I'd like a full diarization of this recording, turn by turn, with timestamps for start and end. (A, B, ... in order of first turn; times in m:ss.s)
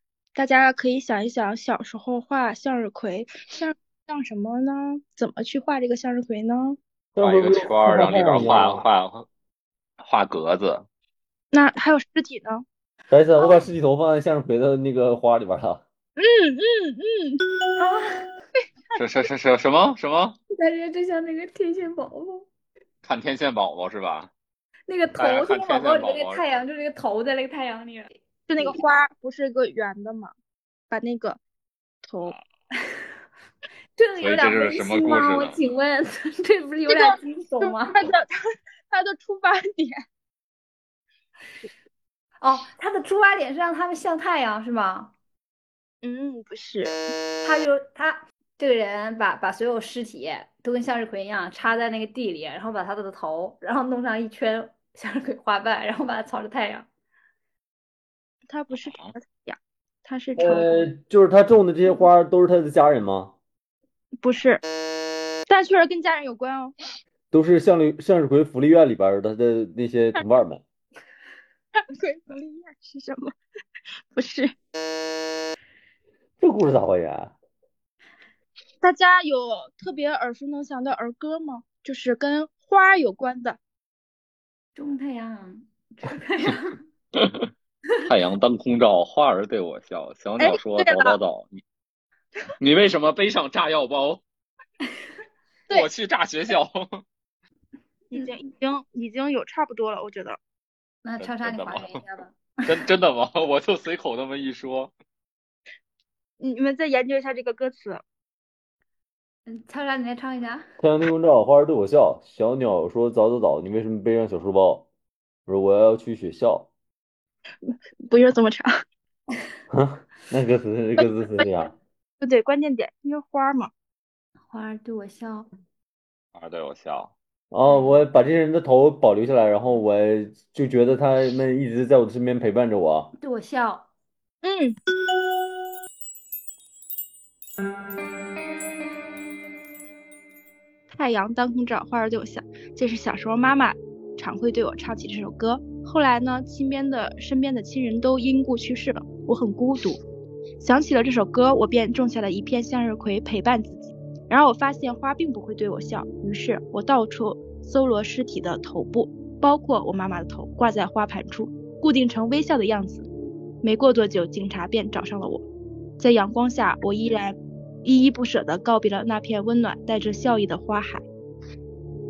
0:00.3-0:06.8 A
0:07.1-0:08.8 B
0:07.2-0:09.3 C
0:10.0-0:10.8 C
0:11.5-0:12.6 A
0:13.1-0:15.8 B
0:16.2-0:17.4 A
0:17.8-0:18.3 D
0:19.0-0:20.4 C
0:20.5-0:22.4 D
0:23.0-0:24.3 C
0:24.9-0:28.8 D
0:25.1-0:26.5 C
0:28.5-0:30.3 A
0:30.9-0:31.4 A
0:32.0-0:32.3 A
0:34.0-0:38.0 D
0:34.2-0:35.6 C
0:36.9-0:38.4 A
0:38.9-0:40.0 A
0:42.4-0:45.1 D
0:46.0-0:47.0 A
0:47.4-0:56.9 D
0:58.5-1:00.9 A
0:58.7-0:59.1 C
1:00.4-1:03.3 B
1:04.2-1:04.6 A
1:05.5-1:06.8 A
1:07.3-1:10.6 B
1:11.8-1:13.3 A
1:14.1-1:14.5 A
1:16.4-1:17.3 B
1:18.8-1:23.6 A
1:24.7-1:26.8 D
1:27.2-1:27.4 C
1:28.0-1:31.6 C
1:30.4-1:31.2 A
1:32.6-1:34.2 C
1:35.7-1:37.0 C
1:38.1-1:40.4 A
1:41.0-1:42.5 D
1:41.2-1:42.0 C
1:42.6-1:44.9 C
1:46.4-1:48.0 A
1:49.4-1:50.6 D
1:50.8-1:54.9 B
1:55.5-1:56.7 B
1:57.6-1:58.8 A
1:59.7-2:01.7 B
2:01.0-2:01.4 A
2:02.2-2:03.7 A
2:04.5-2:05.5 D
2:06.3-2:07.1 C
2:07.5-2:13.1 B
2:13.2-2:13.9 D
2:14.4-2:14.8 A
2:20.9-2:30.0 A
2:30.6-2:43.1 A
2:43.6-2:45.4 A
2:46.0-2:51.0 A